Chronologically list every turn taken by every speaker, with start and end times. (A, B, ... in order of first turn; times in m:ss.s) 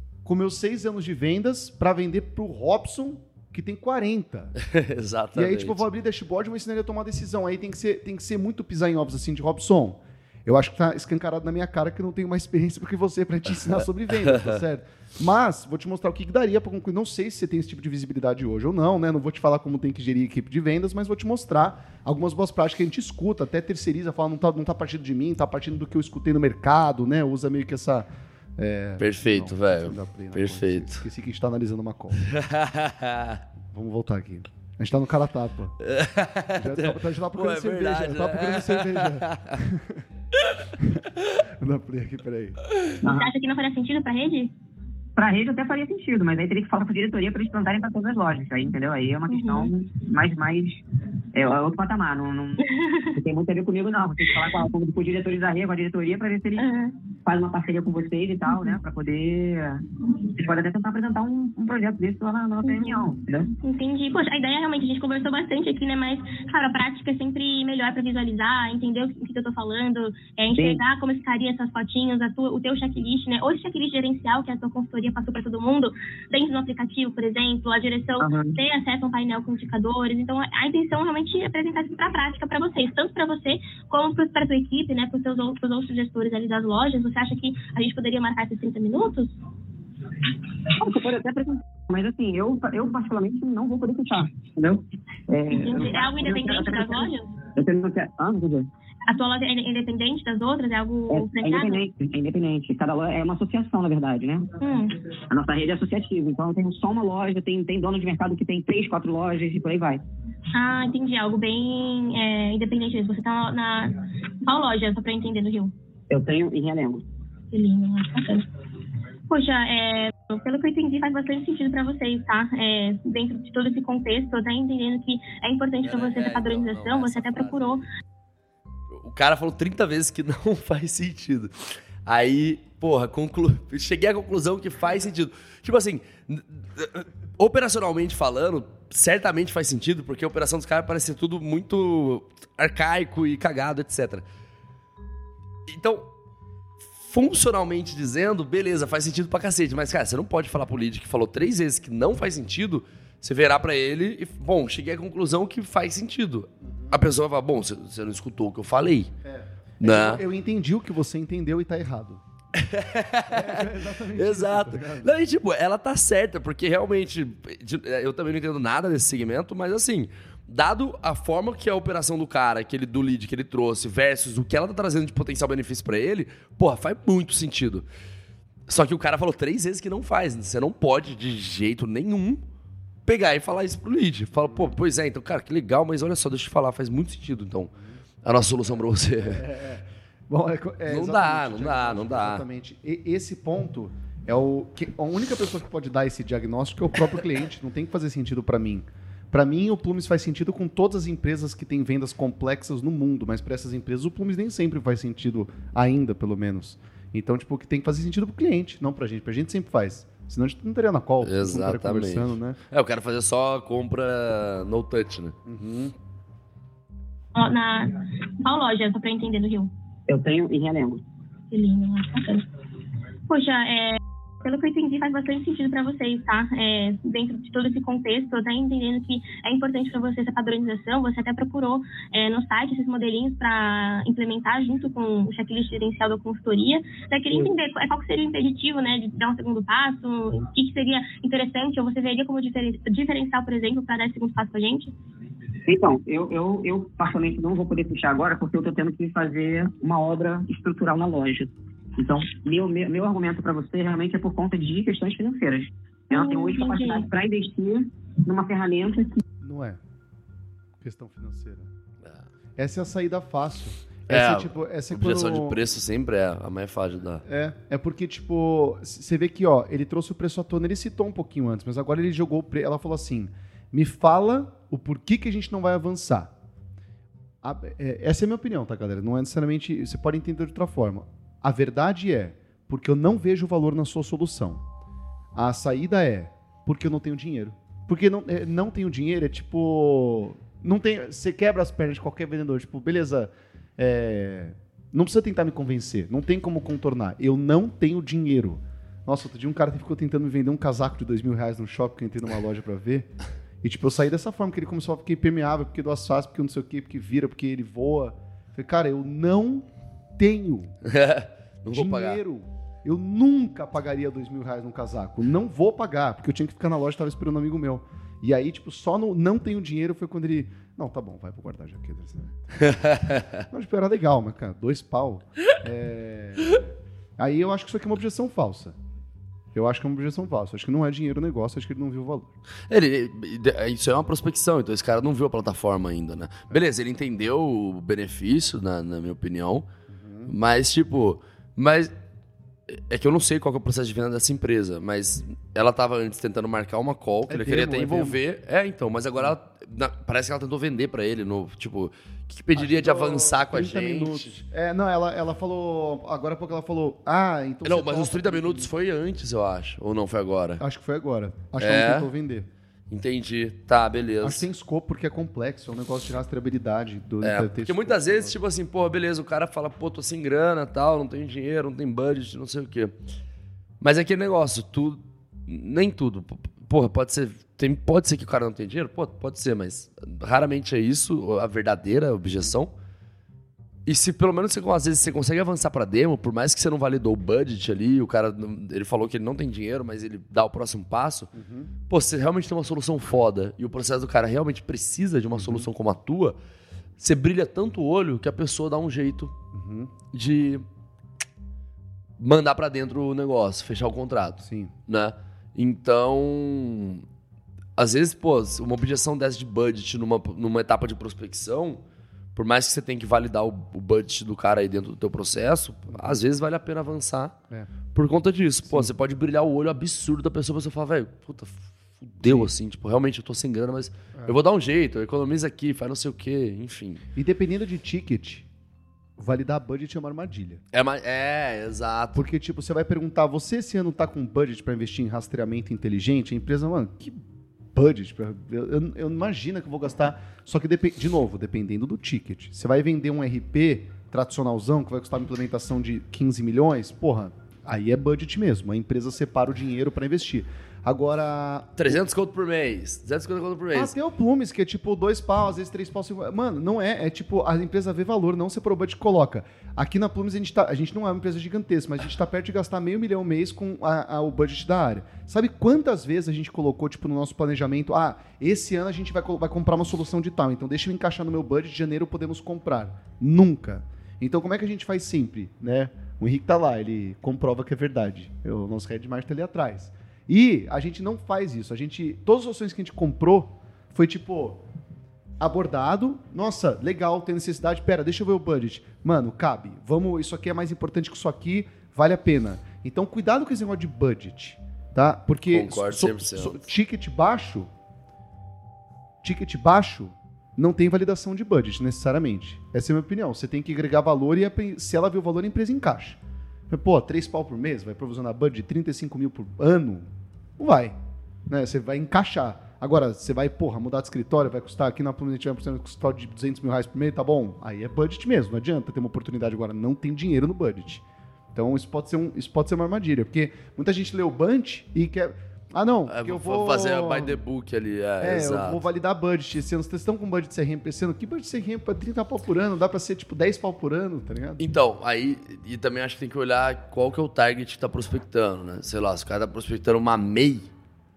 0:00.2-0:04.6 A
0:04.6-0:05.8 B
0:05.4-0:32.3 A
0:14.2-0:14.6 B
0:29.0-0:31.0 B
0:32.2-0:33.4 B
0:33.7-0:35.8 A
0:35.8-0:39.6 B
0:36.6-0:40.0 A
0:40.4-0:40.7 B
0:40.8-0:42.6 A
0:43.0-0:43.3 C
0:43.1-0:44.5 D
0:45.2-0:50.8 C
0:49.3-0:49.7 D
0:51.3-0:56.7 C
0:52.6-0:53.2 D
0:56.6-0:57.0 D
0:57.2-1:03.5 C
0:58.5-0:58.8 D
1:02.6-1:03.0 D
1:03.6-1:29.3 D
1:18.2-1:18.6 C
1:30.7-1:38.7 C
1:35.5-1:37.3 D
1:39.1-1:41.8 D
1:41.1-1:44.5 C
1:44.6-1:45.0 D
1:45.3-1:50.0 C
1:50.5-1:55.7 D
1:56.1-1:57.1 C
1:57.5-1:58.5 D
1:59.3-2:07.8 D
2:05.8-2:07.8 B
2:08.9-2:24.2 B
2:25.7-2:26.1 B
2:27.0-2:39.1 B
2:36.6-2:37.0 A
2:39.2-2:42.2 A
2:39.8-2:40.2 B
2:42.6-2:57.9 B
2:43.3-2:45.1 A
2:58.7-3:02.4 B
3:03.1-3:07.7 B
3:04.4-3:04.7 A
3:08.2-3:09.5 B
3:09.2-3:32.6 A
3:10.9-3:12.4 B
3:31.2-3:35.4 B
3:35.5-3:35.9 A
3:37.4-3:39.7 D
3:40.1-3:41.0 C
3:41.5-3:42.5 D
3:43.3-4:04.9 D
4:05.7-4:19.2 C
4:16.1-4:17.1 D
4:19.4-4:19.8 A
4:20.8-4:21.7 A
4:22.6-4:25.6 A
4:24.1-4:27.2 B
4:27.2-4:36.3 A
4:37.4-4:44.6 A
4:45.4-5:03.1 A
5:03.6-5:10.8 A
5:10.8-5:12.2 B
5:11.7-5:22.8 A
5:22.6-5:23.4 B
5:23.5-5:28.8 A
5:29.5-5:32.3 A
5:32.7-5:39.7 B
5:39.9-5:40.3 A
5:40.3-5:41.9 B
5:42.7-5:54.4 B
5:47.3-5:48.2 A
5:52.6-5:58.7 A
5:57.6-6:00.6 B
6:00.6-6:02.5 A
6:01.6-6:02.1 B
6:02.9-6:04.5 B
6:04.2-6:08.4 A
6:07.2-6:12.9 B
6:13.8-6:22.7 B
6:23.9-6:31.3 B
6:31.3-6:31.7 A
6:31.9-6:36.4 B
6:35.4-6:35.7 A
6:37.0-6:39.3 B
6:39.5-6:39.9 A
6:40.1-6:40.6 B
6:42.2-6:47.0 B
6:44.4-6:44.7 A
6:47.8-6:51.8 B
6:52.4-6:57.4 B
6:55.9-6:56.2 A
6:57.9-7:07.0 B
6:58.7-6:58.9 A
7:02.2-7:02.5 A
7:07.2-7:08.5 A
7:09.2-7:10.6 A
7:10.7-7:12.3 B
7:12.2-7:17.2 A
7:17.7-7:32.0 A
7:31.8-7:33.9 B
7:33.7-8:04.6 A
8:05.4-8:17.7 A
8:15.5-8:16.7 B
8:19.2-8:26.2 A
8:26.7-8:31.0 A
8:31.5-8:41.0 A
8:41.6-8:47.4 A
8:46.1-8:48.8 B
8:48.2-8:54.6 A
8:54.6-9:00.7 B